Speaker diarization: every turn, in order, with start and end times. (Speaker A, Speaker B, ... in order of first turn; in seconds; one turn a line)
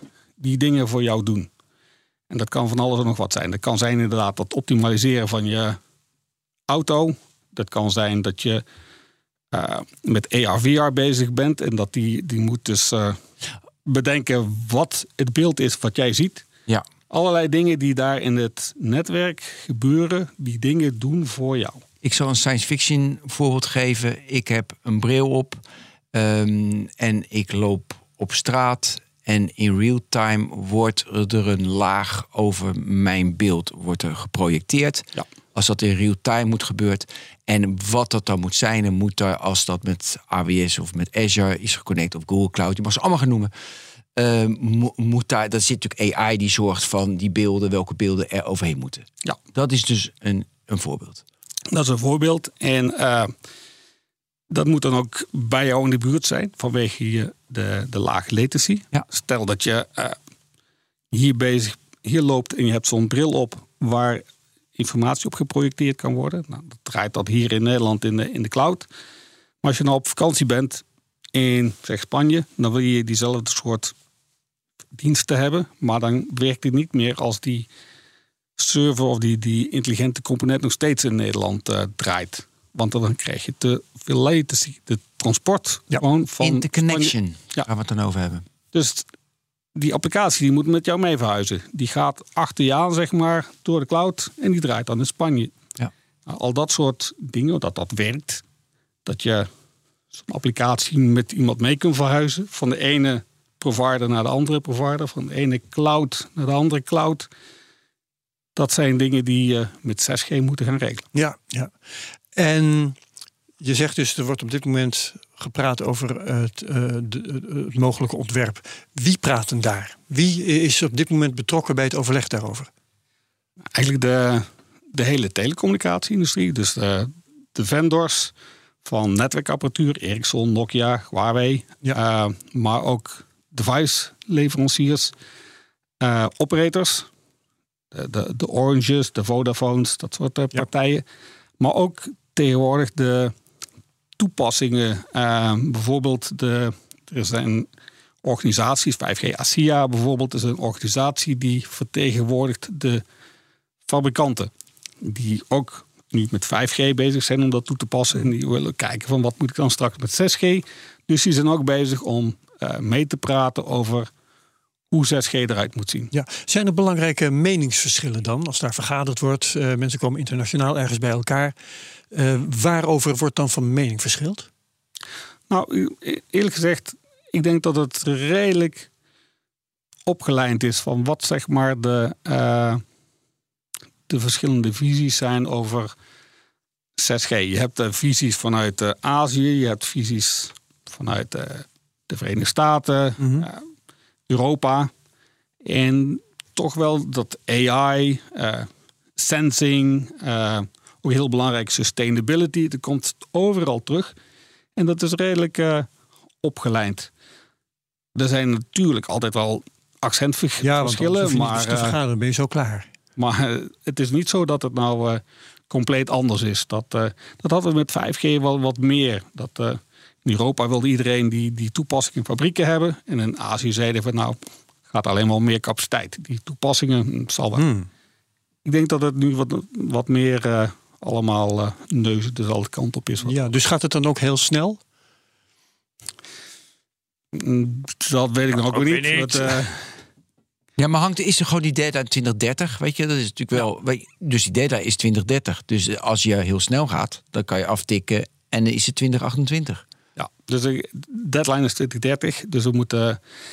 Speaker A: 0.4-1.5
Speaker A: 2.3-5.8
Speaker A: 6.7-8.6
Speaker A: 9.5-13.2
Speaker A: 13.9-16.5
Speaker A: 17.1-21.8
Speaker B: 22.0-43.5
Speaker B: 44.2-51.2
Speaker A: 51.7-53.3
Speaker A: 54.5-60.2
Speaker A: 61.1-64.2
Speaker A: 64.8-68.9
Speaker A: 69.6-73.9
Speaker A: 75.0-77.7
Speaker A: 78.6-87.7
Speaker B: 86.4-88.5
Speaker A: 88.7-89.1
Speaker A: 89.8-95.5
Speaker A: 96.3-98.4
Speaker A: 99.1-99.5
Speaker A: 100.1-107.3
Speaker A: 108.6-111.1
Speaker C: 111.1-111.7
Speaker C: 112.3-113.0
Speaker C: 113.6-122.7
Speaker A: 123.8-128.3
Speaker A: 128.8-135.1
Speaker A: 136.0-137.1
Speaker A: 137.9-141.0
Speaker A: 141.6-143.3
Speaker A: 144.2-147.7
Speaker A: 148.2-153.0
Speaker A: 153.9-154.5
Speaker A: 155.0-164.1
Speaker A: 164.9-166.1
Speaker C: 166.1-171.6
Speaker C: 172.1-174.5
Speaker A: 175.5-178.9
Speaker A: 180.1-182.8
Speaker A: 184.1-185.9
Speaker A: 187.0-193.6
Speaker C: 193.2-193.5
Speaker A: 194.3-194.9
Speaker A: 195.6-204.2
Speaker A: 204.8-205.9
Speaker A: 206.4-207.1
Speaker A: 208.2-212.0
Speaker C: 210.6-212.9
Speaker A: 213.2-224.4
Speaker A: 224.9-227.7
Speaker C: 227.6-227.9
Speaker A: 228.7-233.4
Speaker C: 233.2-234.8
Speaker A: 237.3-239.9
Speaker C: 238.5-239.7
Speaker B: 240.8-249.9
Speaker A: 250.2-253.2